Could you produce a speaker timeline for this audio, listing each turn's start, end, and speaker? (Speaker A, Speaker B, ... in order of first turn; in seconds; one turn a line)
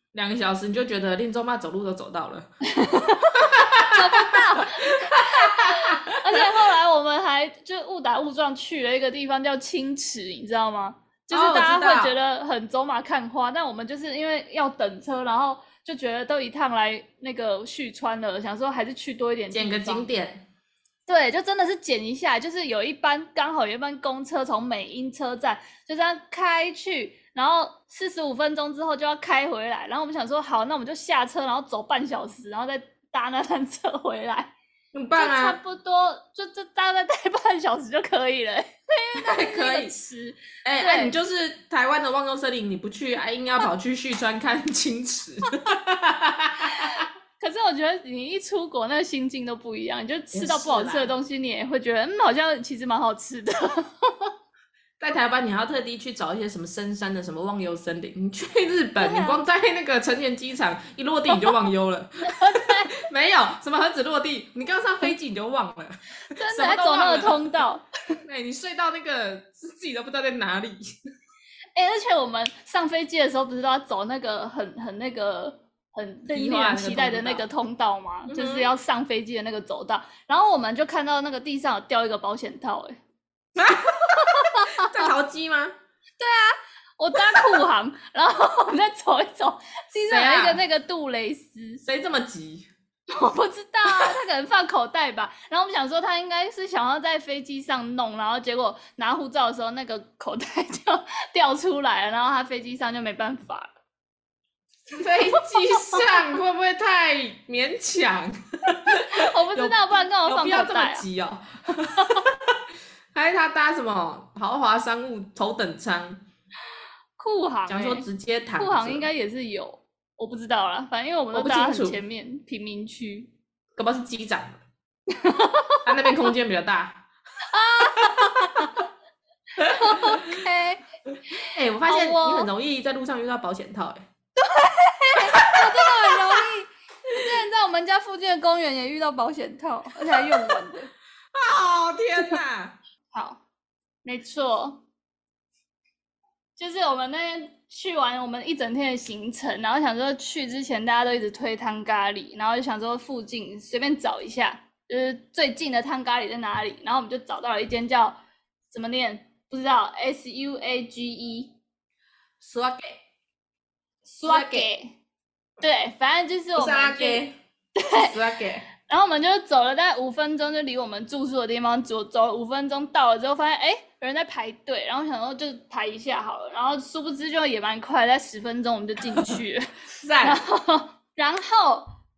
Speaker A: 0.1-2.5
Speaker B: 2.7-20.1
Speaker A: 3.4-6.5
Speaker A: 11.3-12.1
Speaker A: 19.5-20.4
Speaker B: 21.1-34.5
Speaker A: 34.9-35.6
Speaker B: 35.1-41.1
Speaker A: 39.1-39.9
Speaker A: 40.6-47.0
Speaker B: 46.7-54.3
Speaker A: 50.3-51.1
Speaker A: 55.0-67.6
Speaker B: 59.0-59.4
Speaker B: 61.3-61.6
Speaker B: 62.2-63.0
Speaker B: 66.4-68.2
Speaker A: 68.2-70.9
Speaker B: 71.7-83.0
Speaker A: 76.3-77.5
Speaker A: 78.3-78.7
Speaker A: 83.5-85.7
Speaker B: 83.8-85.1
Speaker B: 86.2-91.8
Speaker A: 90.1-90.6
Speaker A: 91.8-92.7
Speaker B: 93.1-103.7
Speaker A: 104.9-112.5
Speaker B: 105.8-106.0
Speaker B: 108.9-111.0
Speaker B: 112.0-112.2
Speaker A: 113.1-116.2
Speaker B: 117.2-118.0
Speaker A: 117.7-119.0
Speaker B: 118.6-123.3
Speaker A: 121.3-122.0
Speaker A: 123.8-124.6
Speaker B: 125.1-125.8
Speaker A: 125.8-127.0
Speaker B: 127.5-128.7
Speaker A: 129.6-130.4
Speaker B: 129.6-130.8
Speaker B: 131.3-132.5
Speaker A: 131.4-134.0
Speaker B: 134.4-140.9
Speaker A: 135.3-136.4
Speaker A: 141.3-142.8
Speaker B: 143.1-143.4
Speaker B: 144.0-144.8
Speaker B: 146.6-158.2
Speaker B: 158.7-161.5
Speaker A: 162.4-163.0
Speaker B: 164.0-164.9
Speaker A: 164.2-164.7
Speaker B: 165.6-167.2
Speaker A: 166.6-167.3
Speaker B: 167.8-168.1
Speaker A: 167.9-168.7
Speaker B: 168.9-179.7
Speaker A: 180.0-180.4
Speaker B: 180.2-181.9